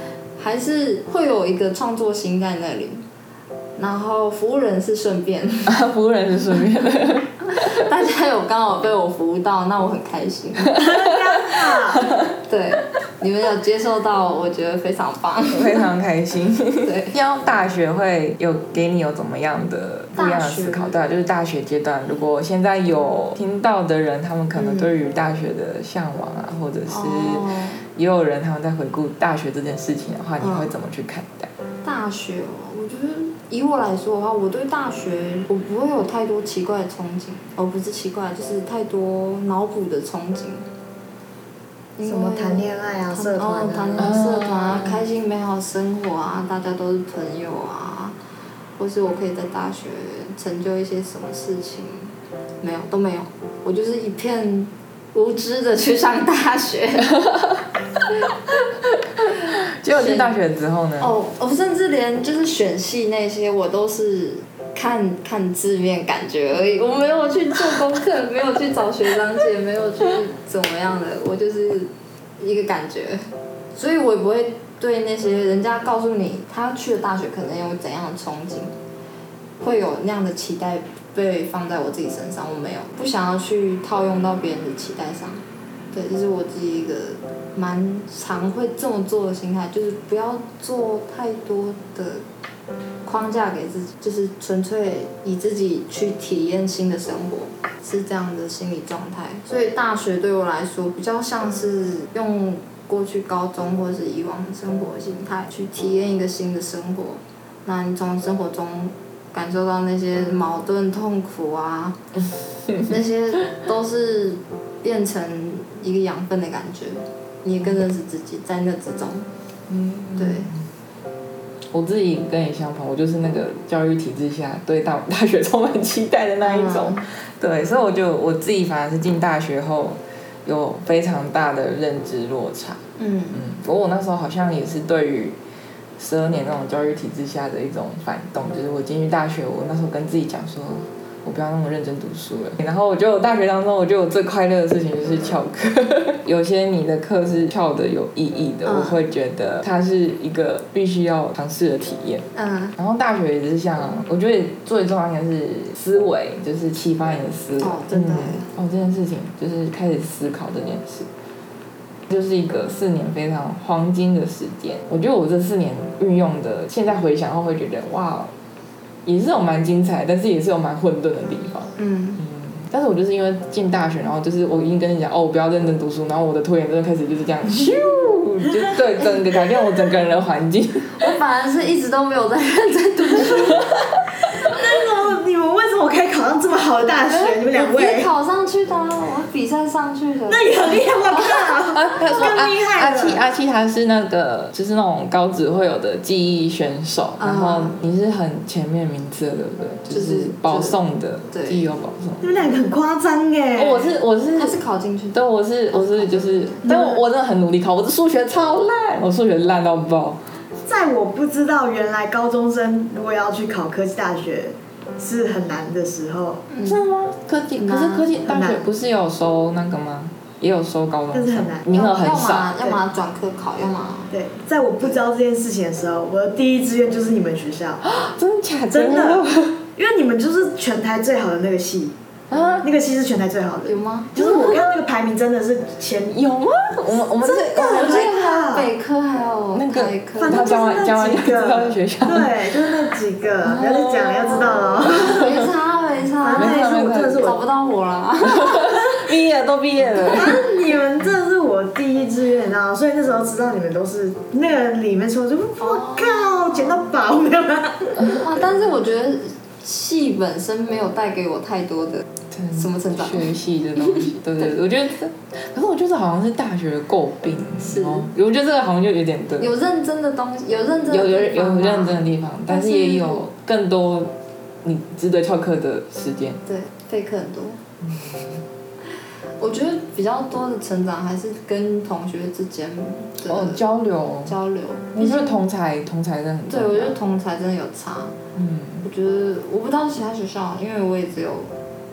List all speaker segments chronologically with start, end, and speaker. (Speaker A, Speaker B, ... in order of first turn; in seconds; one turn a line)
Speaker A: 0.4-3.0
Speaker A: 3.8-5.8
Speaker B: 5.7-7.9
Speaker A: 7.5-10.8
Speaker B: 10.7-12.3
Speaker C: 10.7-12.1
Speaker A: 12.5-15.9
Speaker B: 15.5-31.5
Speaker A: 16.8-17.1
Speaker A: 20.1-20.9
Speaker A: 24.5-24.9
Speaker A: 26.9-27.8
Speaker A: 30.4-30.7
Speaker A: 31.8-40.7
Speaker A: 42.0-48.1
Speaker C: 42.0-44.1
Speaker B: 44.0-45.0
Speaker A: 48.8-57.1
Speaker B: 57.1-57.6
Speaker B: 59.2-61.1
Speaker A: 59.9-60.3
Speaker A: 61.0-78.7
Speaker A: 79.6-92.2
Speaker A: 93.0-112.0
Speaker B: 112.7-112.9
Speaker A: 112.8-119.3
Speaker B: 119.7-120.7
Speaker A: 120.2-120.5
Speaker B: 121.7-132.8
Speaker A: 126.4-127.0
Speaker A: 133.0-133.4
Speaker B: 133.3-135.4
Speaker B: 136.0-161.1
Speaker A: 148.6-149.0
Speaker A: 152.3-152.7
Speaker A: 157.6-158.5
Speaker B: 162.1-168.3
Speaker B: 169.0-181.2
Speaker A: 171.8-172.2
Speaker A: 181.0-183.8
Speaker C: 184.4-188.1
Speaker A: 187.0-191.5
Speaker C: 190.3-193.2
Speaker B: 191.7-202.2
Speaker A: 197.2-197.8
Speaker A: 199.9-201.6
Speaker C: 202.2-203.9
Speaker B: 203.6-204.6
Speaker A: 204.3-205.2
Speaker B: 205.1-210.2
Speaker A: 205.7-206.6
Speaker C: 206.7-207.0
Speaker C: 210.7-216.5
Speaker A: 216.5-216.8
Speaker B: 216.7-222.5
Speaker A: 217.6-218.1
Speaker C: 218.2-218.7
Speaker C: 221.1-221.7
Speaker A: 221.7-224.1
Speaker C: 224.1-227.8
Speaker B: 227.8-229.6
Speaker C: 228.7-231.9
Speaker B: 232.3-232.6
Speaker C: 232.6-236.2
Speaker A: 233.7-234.1
Speaker B: 234.2-234.8
Speaker B: 236.1-238.1
Speaker C: 237.2-238.7
Speaker A: 237.7-240.4
Speaker B: 239.5-242.9
Speaker C: 240.2-245.2
Speaker B: 243.4-245.3
Speaker A: 244.8-249.0
Speaker C: 246.2-247.4
Speaker B: 246.4-247.2
Speaker B: 248.3-250.5
Speaker A: 249.9-250.3
Speaker C: 250.1-258.2
Speaker A: 255.6-256.9
Speaker A: 258.0-264.5
Speaker B: 262.3-269.5
Speaker A: 267.6-268.1
Speaker A: 269.4-273.2
Speaker B: 270.9-276.4
Speaker A: 276.4-277.6
Speaker B: 277.8-278.4
Speaker A: 279.4-283.6
Speaker B: 283.2-284.3
Speaker A: 284.2-285.4
Speaker B: 284.9-286.9
Speaker A: 286.5-288.1
Speaker B: 288.4-288.9
Speaker A: 288.8-291.5